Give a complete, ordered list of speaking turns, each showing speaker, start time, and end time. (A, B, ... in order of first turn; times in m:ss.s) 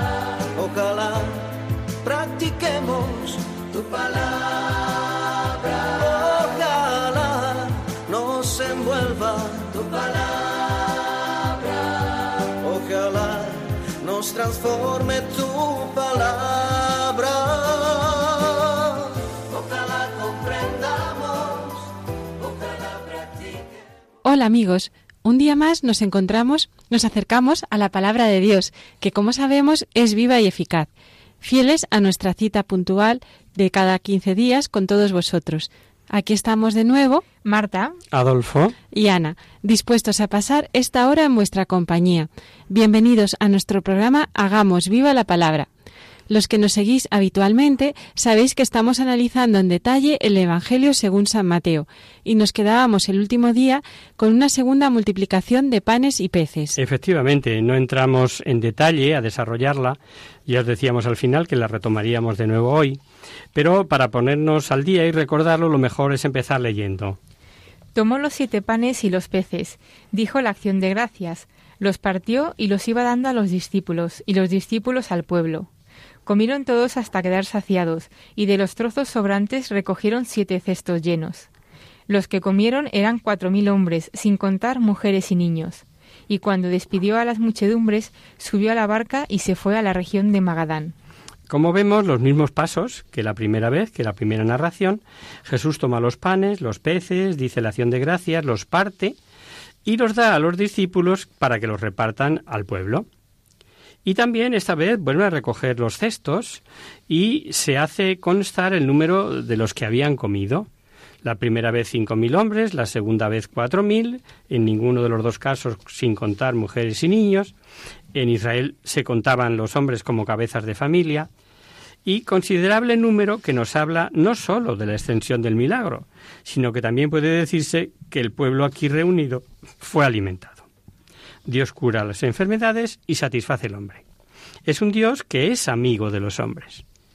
0:00.5-0:23.4 A
0:24.2-0:30.9 B
0:31.4-0:37.2 B
0:37.4-0:38.0 C
0:38.1-0:38.8 D
0:38.9-0:45.7 B
0:46.3-0:56.8 B
0:56.8-1:03.0 D
1:03.5-1:07.2 D
1:07.9-1:15.7 C
1:16.2-1:21.5 C
1:22.1-1:30.9 C
1:31.5-1:39.2 D
1:39.8-1:43.1 D
1:44.0-1:50.7 D
1:51.2-1:57.5 D
1:58.1-2:01.3 D
2:02.0-2:10.7 D
2:11.4-2:14.0 D
2:14.6-2:16.8 D